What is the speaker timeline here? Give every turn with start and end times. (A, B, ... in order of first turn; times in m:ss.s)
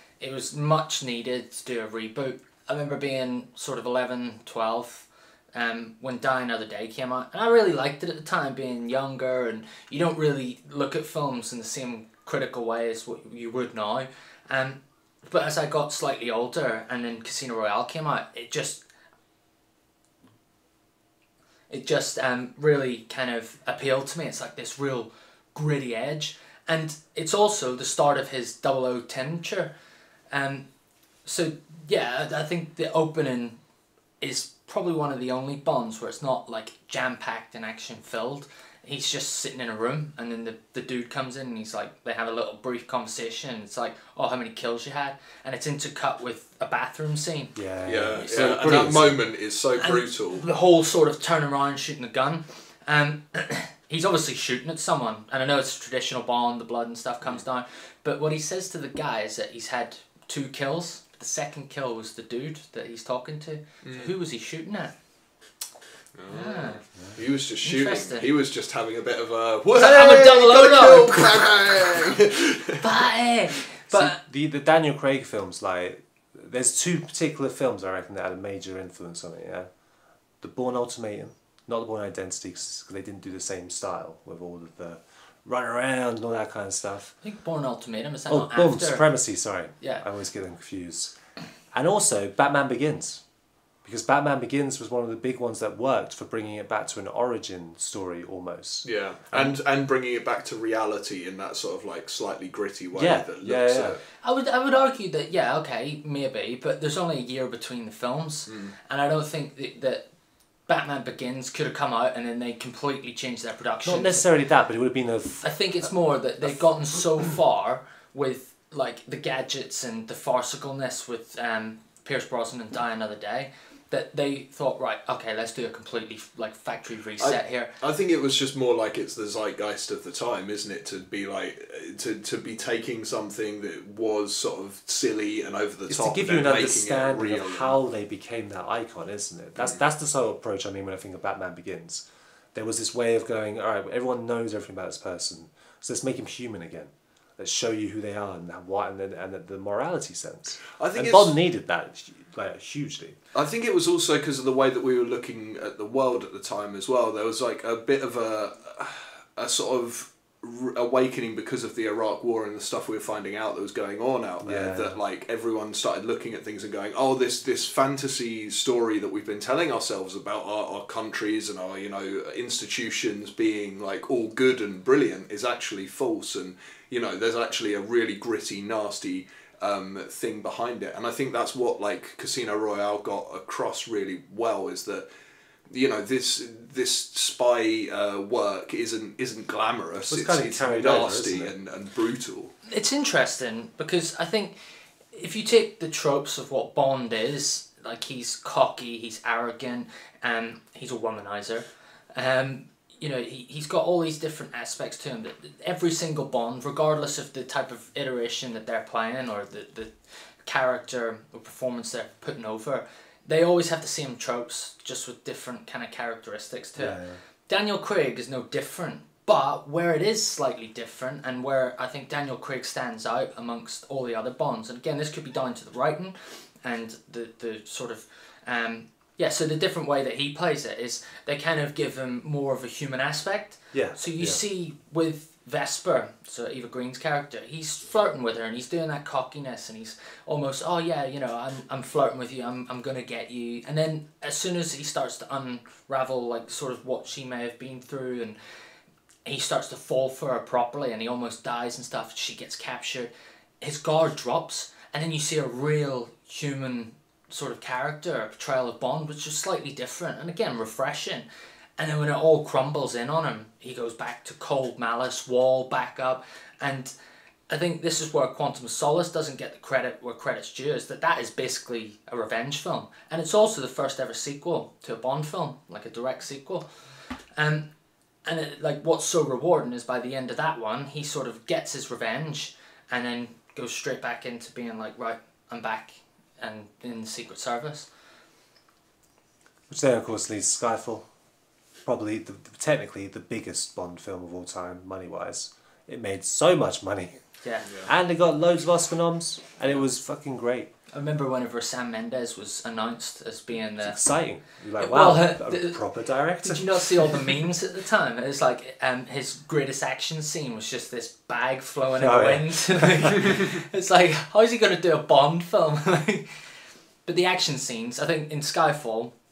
0:00.2-0:18.8 A
0:21.7-0:29.7 A
0:30.3-0:30.6 A
0:31.2-0:33.6 A
0:34.2-0:47.6 A
0:47.6-0:49.2 B
0:47.8-0:50.5 C
0:48.1-0:48.7 A
0:49.8-1:04.9 A
1:03.8-1:04.1 C
1:06.2-1:12.9 C
1:06.3-1:06.8 A
1:07.6-1:08.3 A
1:09.8-1:12.1 A
1:12.8-1:14.2 A
1:13.9-1:19.7 B
1:20.4-1:27.2 B
1:27.2-1:29.1 A
1:28.3-1:31.1 B
1:29.8-1:30.0 A
1:31.7-1:33.2 B
1:33.8-1:39.6 B
1:38.8-1:44.0 C
1:42.9-1:44.0 B
1:44.2-1:50.0 A
1:48.5-1:48.7 C
1:50.7-1:54.3 A
1:53.8-1:55.9 B
1:55.4-2:07.7 A
2:07.2-2:17.8 C
2:15.9-2:33.2 B
2:30.8-2:31.3 C
2:33.3-3:05.1 C
2:44.4-2:45.0 B
3:05.7-3:12.6 C
3:10.1-3:11.5 B
3:12.7-3:14.6 A
3:15.1-4:08.4 A
3:36.8-3:37.2 B
3:53.7-3:54.4 B
4:09.2-4:21.3 A
4:21.8-4:26.9 A
4:27.5-4:37.7 A
4:38.2-4:47.9 A
4:49.7-4:51.1 B
4:51.8-4:57.2 B
4:57.4-4:57.7 A
4:57.8-5:00.7 B
5:00.9-5:04.0 A
5:03.8-5:07.4 B
5:04.8-5:05.8 A
5:06.4-5:16.3 A
5:12.0-5:13.5 B
5:17.1-5:19.1 A